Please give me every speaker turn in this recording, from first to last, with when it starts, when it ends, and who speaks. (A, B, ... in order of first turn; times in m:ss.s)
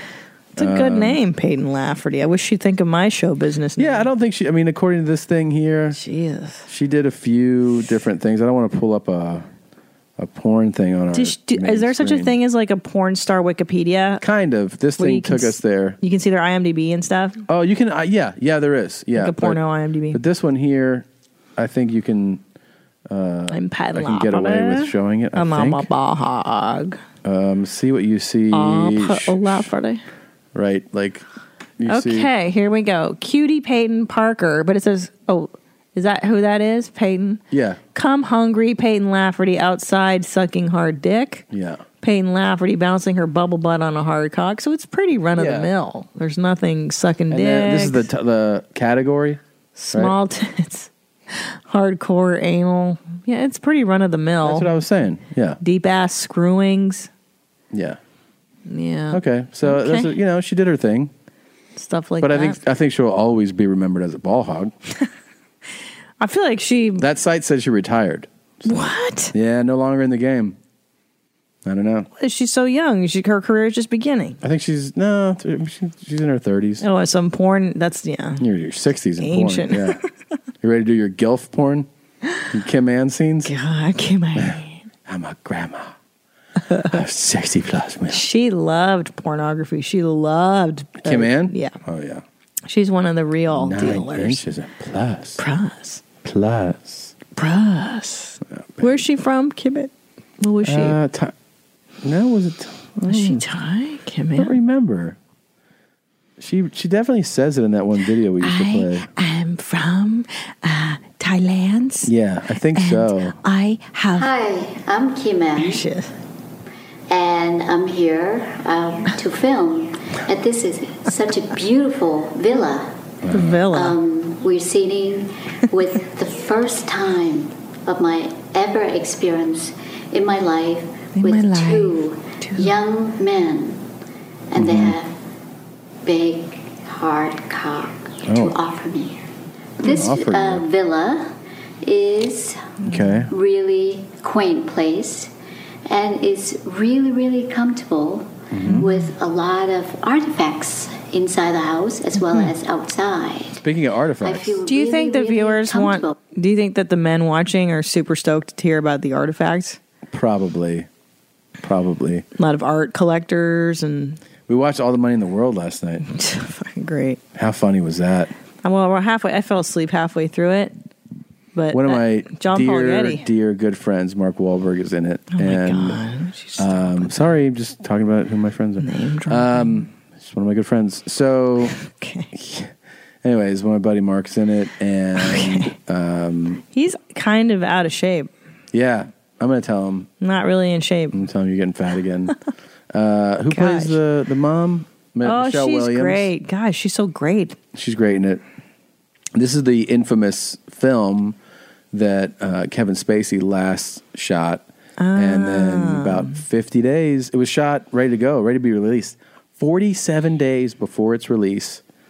0:00.6-0:04.1 A
0:00.6-0:01.2 B
0:03.8-0:06.0 B
0:05.9-0:06.7 A
0:06.7-0:09.5 B
0:10.2-0:12.4 B
0:11.1-0:14.2 A
0:14.2-0:16.0 B
0:15.0-0:17.4 A
0:17.5-0:19.6 B
0:19.2-0:20.2 A
0:20.1-0:21.1 B
0:21.6-0:22.4 B
0:23.1-0:25.9 B
0:23.5-0:27.0 A
0:27.2-0:29.7 B
0:28.5-0:30.0 A
0:30.5-0:31.2 B
0:31.8-0:32.3 B
0:31.9-0:37.4 A
0:37.5-0:37.8 B
0:37.9-0:41.4 A
0:41.5-0:41.8 B
0:42.0-0:48.1 A
0:45.4-0:45.7 B
0:47.3-0:49.4 B
0:49.8-0:54.7 A
0:54.4-0:55.6 B
0:55.6-0:57.1 A
0:57.7-0:58.0 B
0:58.7-1:00.1 A
0:59.1-1:01.1 B
1:01.8-1:02.6 A
1:02.2-1:04.7 B
1:06.2-1:07.0 A
1:07.0-1:10.6 B
1:08.6-1:09.3 A
1:11.6-1:12.1 B
1:12.2-1:14.4 A
1:14.4-1:16.8 B
1:16.8-1:18.4 A
1:18.4-1:20.0 B
1:19.2-1:20.0 A
1:20.6-1:21.9 B
1:22.5-1:23.5 B
1:23.4-1:24.8 A
1:25.1-1:26.0 B
1:26.7-1:28.2 B
1:28.1-1:31.8 A
1:31.0-1:32.2 B
1:32.7-1:34.4 A
1:33.5-1:35.4 B
1:35.4-1:36.0 A
1:36.2-1:37.1 B
1:37.4-1:41.0 A
1:38.6-1:39.0 B
1:40.6-1:41.3 B
1:42.0-1:43.4 B
1:43.1-1:44.6 A
1:44.4-1:45.2 B
1:46.4-1:49.1 B
1:48.4-1:52.1 A
1:52.0-1:53.4 B
1:52.7-1:54.3 A
1:54.2-1:55.8 C
1:55.6-1:56.1 A
1:57.1-2:03.0 C
2:03.2-2:03.6 B
2:03.3-2:04.0 A
2:03.7-2:13.8 C
2:11.1-2:12.8 A
2:14.5-2:15.2 C
2:14.6-2:15.0 B
2:16.0-2:19.2 C
2:18.3-2:18.6 B
2:19.8-2:25.3 C
2:19.8-2:20.6 B
2:22.8-2:23.2 A
2:22.8-2:23.3 B
2:25.9-2:33.6 C
2:28.5-2:28.9 B
2:28.6-2:29.1 A
2:32.3-2:32.5 A
2:33.6-2:34.6 B
2:34.2-2:36.2 C
2:34.7-2:39.8 A
2:40.1-2:40.9 B
2:41.6-2:42.3 B
2:42.4-2:44.2 A
2:44.5-2:46.0 B
2:46.1-2:47.2 A
2:47.4-2:48.3 B
2:48.6-2:50.7 A
2:51.6-2:53.2 A
2:51.7-2:56.0 B
2:55.3-2:57.2 A
2:56.6-3:01.8 B
2:58.8-2:59.9 A
3:01.8-3:02.3 A
3:02.3-3:02.7 B
3:03.2-3:06.6 B
3:05.2-3:05.7 A
3:06.7-3:08.3 A
3:08.7-3:10.1 B
3:10.2-3:11.2 A
3:11.1-3:12.3 B
3:12.9-3:16.3 B
3:13.5-3:14.0 A
3:15.2-3:17.6 A
3:17.7-3:18.4 B
3:19.4-3:21.4 B
3:21.9-3:31.8 B
3:25.0-3:26.4 A